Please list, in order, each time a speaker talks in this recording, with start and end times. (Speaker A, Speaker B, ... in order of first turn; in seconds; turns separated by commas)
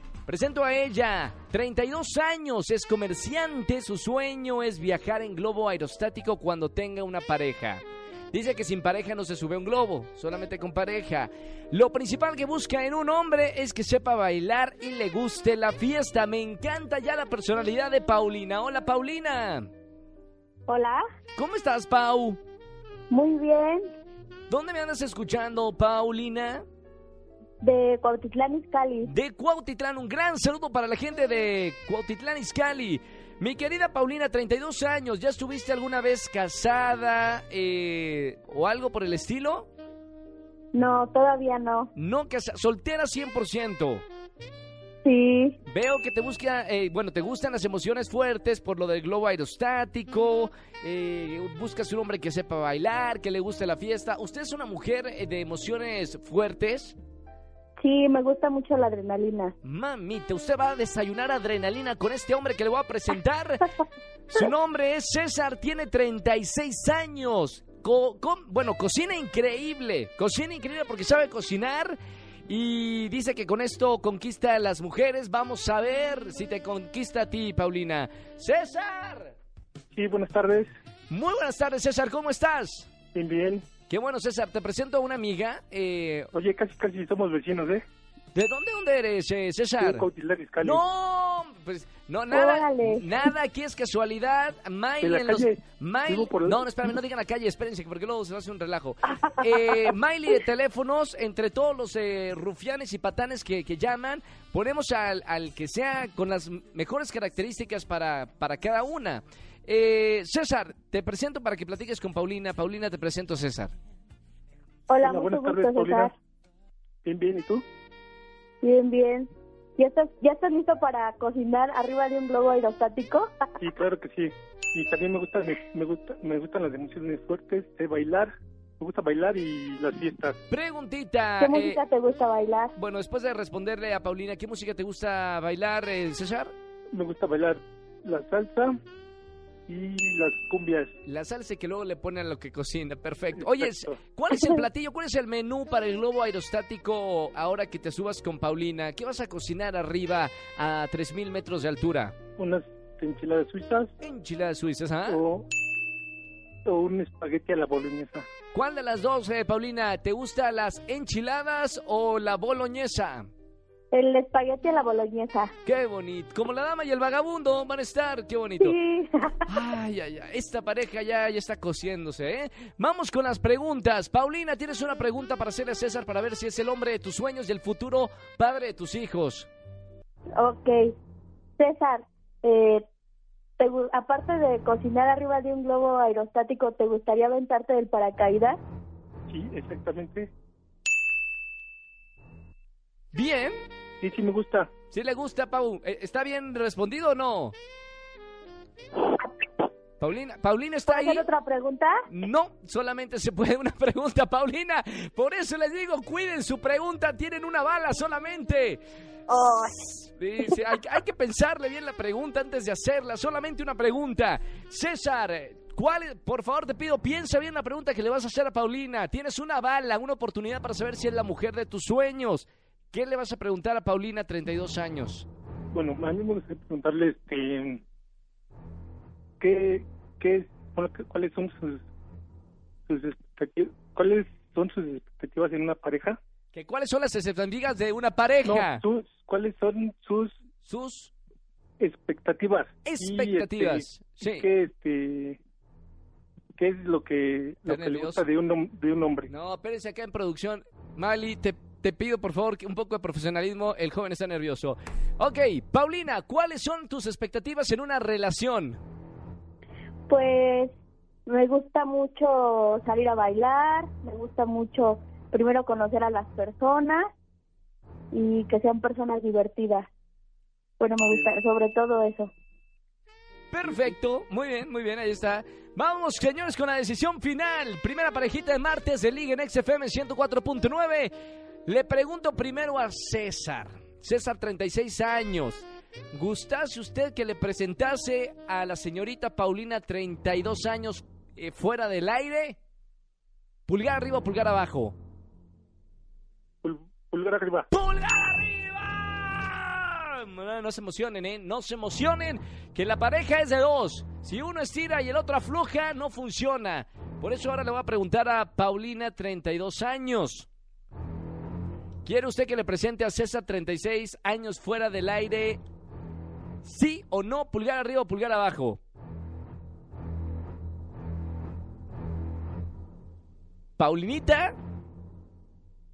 Speaker A: 0.3-19.7, Speaker B: 20.7-21.0, Speaker A: 21.4-22.4, Speaker B: 23.1-23.9, Speaker A: 24.5-26.6, Speaker B: 27.6-29.1, Speaker A: 29.0-39.7, Speaker B: 40.7-41.9, Speaker A: 42.0-44.0, Speaker B: 45.0-45.6, Speaker A: 45.6-57.0, Speaker B: 57.8-59.5, Speaker A: 59.6-63.7, Speaker A: 64.3-72.0, Speaker A: 72.5-79.3, Speaker C: 79.9-80.7, Speaker A: 81.1-82.9, Speaker C: 83.1-83.7, Speaker A: 83.9-86.3, Speaker C: 86.3-87.8, Speaker A: 88.3-90.0, Speaker C: 89.8-90.8, Speaker A: 90.6-113.7, Speaker B: 92.3-93.0, Speaker C: 95.0-96.7, Speaker B: 114.9-116.1, Speaker C: 115.0-116.1, Speaker C: 117.0-117.6, Speaker B: 118.6-123.3, Speaker C: 123.6-130.3, Speaker A: 130.5-131.8, Speaker B: 131.4-132.7, Speaker A: 132.8-136.5, Speaker C: 136.9-138.8, Speaker C: 139.7-140.9, Speaker A: 141.1-152.2, Speaker C: 143.4-144.0, Speaker C: 152.4-153.9, Speaker A: 154.0-155.2, Speaker C: 155.1-155.5, Speaker C: 156.6-158.2, Speaker A: 158.5-163.3, Speaker B: 163.9-165.5, Speaker A: 165.6-168.8, Speaker B: 168.6-169.5, Speaker A: 169.5-179.5, Speaker B: 180.4-180.9, Speaker B: 181.6-182.8, Speaker B: 183.6-188.6, Speaker C: 189.3-190.3, Speaker A: 193.1-193.6, Speaker C: 194.0-194.7, Speaker A: 194.9-197.5, Speaker A: 200.0-201.3, Speaker B: 200.9-201.9, Speaker A: 202.1-208.8, Speaker B: 209.3-209.8, Speaker A: 209.5-225.3, Speaker C: 225.7-227.8, Speaker C: 229.4-231.8, Speaker C: 232.9-236.2, Speaker A: 236.5-238.8, Speaker C: 238.4-240.4, Speaker A: 240.6-241.1, Speaker C: 241.8-245.4, Speaker A: 242.8-244.4, Speaker C: 246.6-249.3, Speaker A: 247.7-248.2, Speaker A: 249.3-258.8, Speaker B: 260.1-260.7, Speaker B: 261.2-267.1, Speaker B: 268.1-269.9, Speaker B: 270.8-272.3, Speaker A: 273.5-281.1, Speaker A: 281.6-292.6, Speaker A: 293.7-295.0, Speaker C: 296.6-297.7, Speaker A: 297.7-310.5, Speaker A: 312.0-315.6, Speaker A: 316.6-318.8, Speaker A: 323.8-324.5